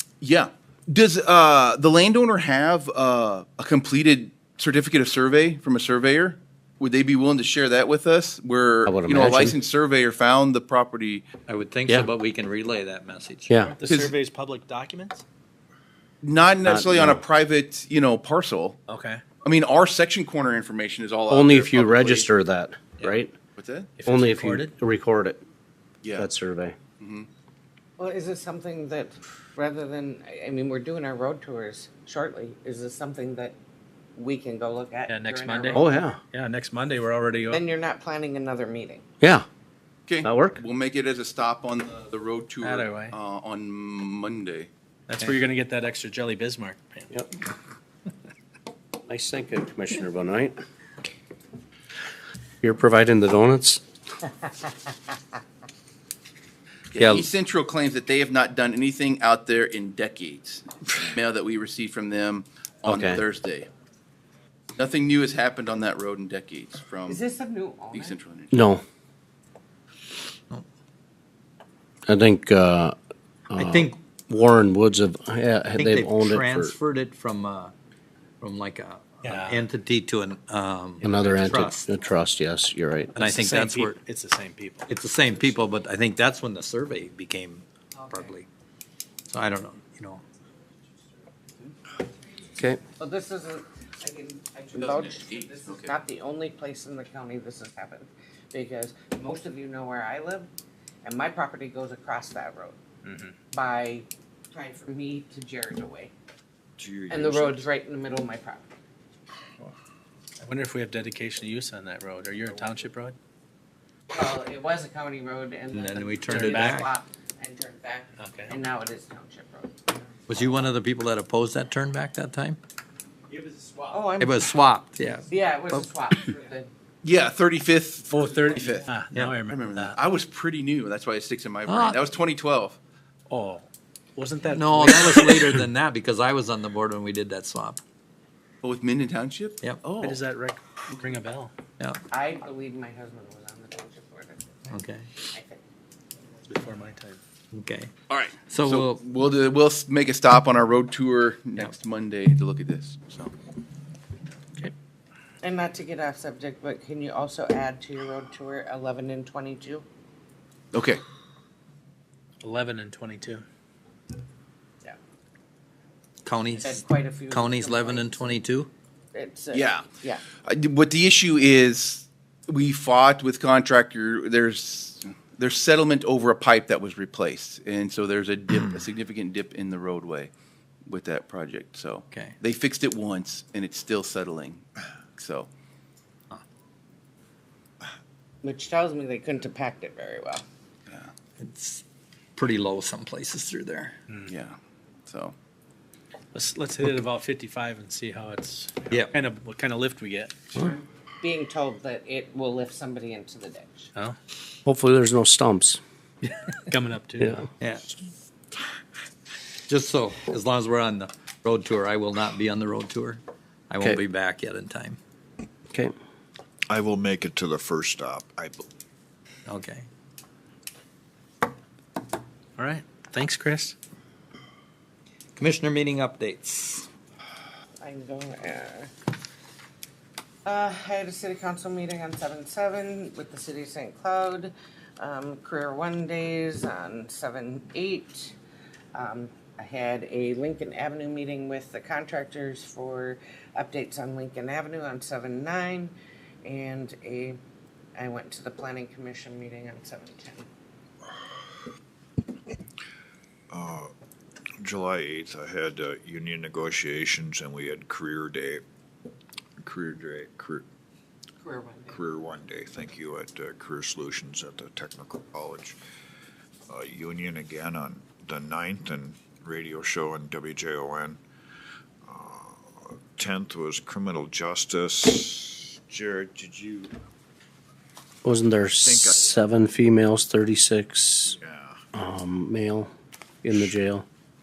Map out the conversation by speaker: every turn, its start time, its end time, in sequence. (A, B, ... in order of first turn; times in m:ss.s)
0:00.2-0:11.2 A
0:08.9-0:09.6 B
0:11.5-0:13.5 C
0:13.5-0:13.8 B
0:13.6-0:15.2 D
0:13.9-0:14.1 A
0:16.2-0:18.8 A
0:16.6-0:17.2 B
0:18.9-0:19.2 D
0:19.4-0:22.3 A
0:21.3-0:23.3 B
0:23.6-0:23.9 A
0:24.0-0:24.7 D
0:24.0-0:25.4 B
0:26.0-0:26.3 A
0:26.2-0:26.8 B
0:27.0-0:27.3 A
0:28.0-0:33.6 E
0:34.2-0:36.1 E
0:35.1-0:37.6 D
0:35.7-0:36.2 B
0:37.5-0:39.0 E
0:39.2-0:39.5 B
0:40.1-0:44.7 A
0:40.2-0:40.6 B
0:42.6-0:43.2 D
0:45.1-0:47.1 D
0:49.1-0:50.6 B
0:52.6-0:53.8 B
0:56.9-1:03.7 A
0:57.0-0:57.3 B
1:02.8-1:03.2 B
1:04.8-1:07.2 A
1:07.1-1:08.2 E
1:07.9-1:08.7 A
1:08.5-1:08.8 B
1:12.1-1:13.0 B
1:13.5-1:16.8 B
1:13.5-1:14.0 C
1:15.8-1:17.7 C
1:18.4-1:21.8 C
1:19.2-1:19.6 D
1:21.0-1:23.2 B
1:23.2-1:24.0 C
1:23.2-1:24.9 D
1:24.9-1:28.5 C
1:27.9-1:28.3 E
1:29.3-1:30.2 C
1:33.0-1:40.5 E
1:34.8-1:36.0 A
1:41.0-1:42.8 E
1:43.0-1:43.3 D
1:43.5-1:46.1 E
1:46.8-1:47.7 F
1:47.1-1:48.7 E
1:50.4-1:53.2 D
1:54.1-2:00.7 E
1:55.7-1:57.0 C
1:56.3-1:56.9 D
1:58.2-1:58.6 D
2:00.3-2:02.6 C
2:03.9-2:04.6 E
2:04.2-2:05.8 C
2:05.3-2:06.7 E
2:07.0-2:08.9 A
2:08.1-2:10.0 D
2:09.1-2:09.4 C
2:09.5-2:12.8 A
2:11.7-2:12.0 C
2:13.3-2:15.6 D
2:14.5-2:17.8 C
2:18.6-2:20.2 A
2:19.9-2:21.5 D
2:22.1-2:25.6 E
2:24.7-2:25.1 C
2:26.5-2:27.2 D
2:27.5-2:27.9 C
2:28.1-2:33.3 A
2:28.5-2:29.0 C
2:35.4-2:39.8 E
2:40.7-2:41.0 A
2:42.4-2:43.4 D
2:46.2-2:48.7 C
2:46.5-2:48.4 E
2:49.1-2:50.2 E
2:49.5-2:49.9 A
2:50.4-3:00.3 A
3:00.9-3:05.5 A
3:08.4-3:10.4 E
3:11.4-3:11.8 C
3:12.4-3:13.9 C
3:14.3-3:15.4 A
3:16.3-3:20.5 D
3:21.2-3:23.9 E
3:24.6-3:25.8 B
3:26.2-3:26.5 C
3:26.7-3:27.5 D
3:29.7-3:35.0 C
3:36.7-3:38.7 F
3:39.5-3:39.9 C
3:42.6-3:43.8 D
3:45.4-3:46.9 C
3:47.8-3:48.9 E
3:50.4-3:58.4 E
3:58.9-4:05.9 E
4:06.4-4:07.4 E
4:08.0-4:10.5 E
4:13.5-4:13.9 F
4:14.6-4:18.6 F
4:19.6-4:20.6 F
4:21.4-4:22.0 E
4:21.9-4:25.8 F
4:26.7-4:31.2 F
4:32.1-4:36.9 F
4:38.2-4:41.4 B
4:38.8-4:39.4 F
4:41.3-4:41.8 F
4:42.0-4:42.9 B
4:43.4-4:44.0 B